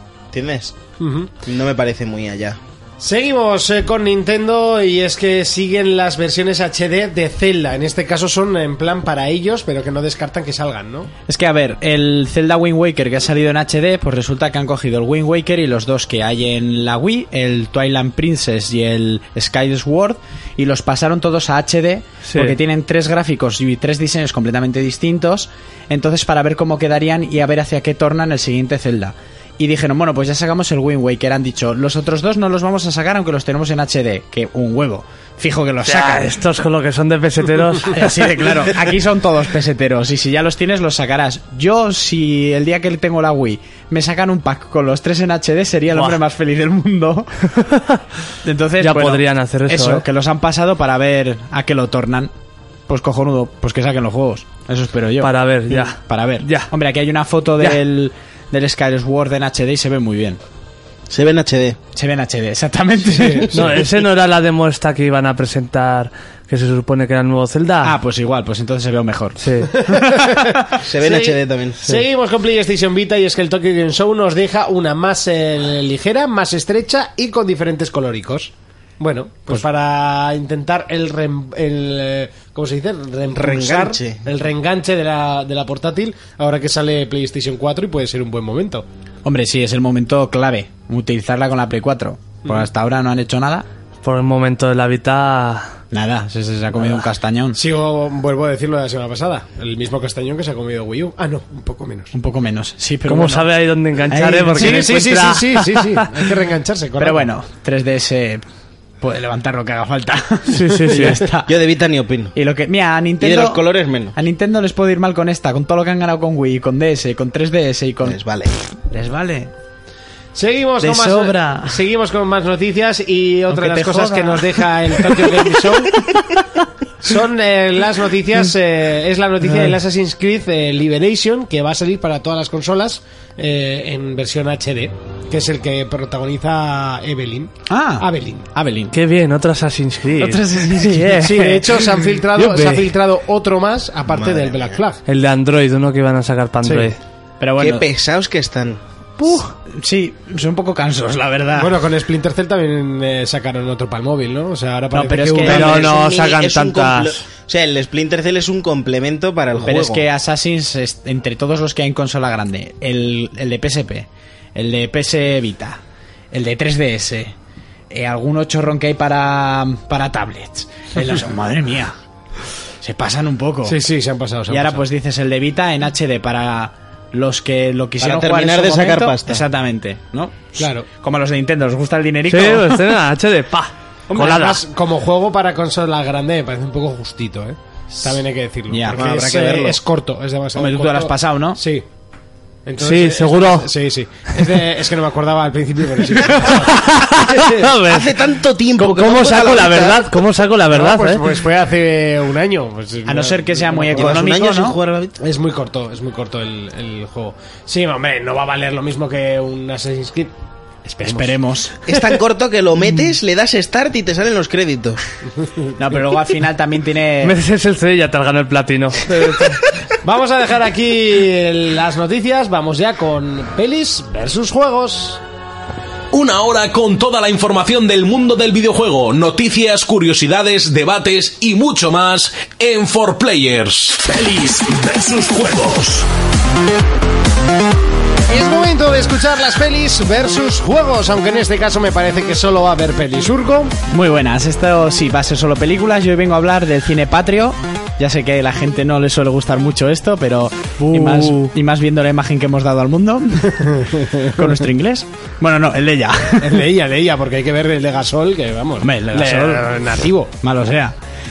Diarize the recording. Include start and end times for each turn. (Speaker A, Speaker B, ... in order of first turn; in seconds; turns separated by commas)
Speaker A: 0.3-0.8, Speaker B: 1.0-1.3, Speaker A: 1.4-2.6, Speaker B: 3.0-11.1, Speaker C: 11.3-36.3, Speaker D: 22.3-22.6, Speaker D: 35.8-38.6, Speaker C: 37.9-47.5, Speaker D: 45.9-46.2, Speaker D: 47.6-48.0, Speaker C: 48.4-52.3, Speaker D: 48.8-50.0, Speaker C: 52.9-60.4, Speaker D: 55.2-56.7, Speaker A: 61.1-61.8, Speaker C: 61.9-63.7, Speaker D: 63.5-68.0, Speaker C: 67.8-70.8, Speaker D: 69.4-69.7, Speaker B: 69.9-88.8, Speaker A: 70.8-71.8, Speaker A: 83.3-84.2, Speaker C: 89.2-93.7, Speaker D: 94.0-95.8, Speaker C: 95.9-97.6, Speaker B: 97.5-102.1, Speaker C: 102.1-103.5, Speaker D: 103.0-106.1, Speaker C: 104.1-105.0, Speaker B: 104.5-107.3, Speaker C: 107.0-108.4, Speaker C: 109.0-111.5, Speaker D: 110.5-111.2, Speaker A: 111.5-112.3, Speaker C: 112.3-118.2, Speaker A: 113.2-114.1, Speaker A: 118.0-118.5, Speaker C: 118.9-119.5, Speaker B: 120.3-126.0, Speaker C: 120.8-121.8, Speaker C: 123.5-125.8, Speaker B: 127.0-138.4, Speaker C: 129.4-129.7, Speaker C: 137.7-138.9, Speaker D: 138.9-142.9, Speaker C: 140.2-141.8, Speaker B: 141.2-145.0, Speaker A: 144.1-144.8, Speaker D: 145.1-147.0, Speaker B: 146.6-146.9, Speaker C: 147.4-147.9, Speaker A: 147.6-148.8, Speaker C: 149.7-151.8, Speaker B: 151.5-155.9, Speaker C: 154.9-155.9, Speaker D: 155.4-157.2, Speaker A: 155.5-160.0, Speaker C: 159.6-165.8, Speaker C: 166.3-167.3, Speaker C: 167.9-171.9, Speaker C: 172.8-173.8, Speaker B: 173.6-174.8, Speaker C: 174.5-183.0, Speaker A: 178.0-179.4, Speaker B: 180.6-180.8, Speaker D: 182.3-184.6, Speaker B: 184.1-191.8, Speaker C: 184.1-184.4, Speaker C: 188.7-189.5, Speaker A: 188.9-189.6, Speaker C: 190.6-191.6, Speaker B: 192.7-197.7, Speaker D: 192.8-193.7, Speaker D: 196.1-201.3, Speaker A: 197.8-200.1, Speaker B: 200.7-204.2, Speaker C: 203.1-204.8, Speaker A: 203.9-205.2, Speaker B: 205.2-210.3, Speaker C: 210.9-211.8, Speaker B: 211.0-211.3, Speaker A: 211.9-215.0, Speaker C: 215.8-217.4, Speaker D: 217.2-219.6, Speaker B: 220.0-225.2, Speaker E: 226.1-234.0, Speaker F: 234.0-236.1, Speaker B: 238.3-243.7, Speaker C: 243.9-256.7, Speaker D: 250.8-251.5, Speaker B: 253.9-254.3, Speaker B: 256.4-260.3, Speaker C: 258.8-259.7, Speaker C: 260.4-260.9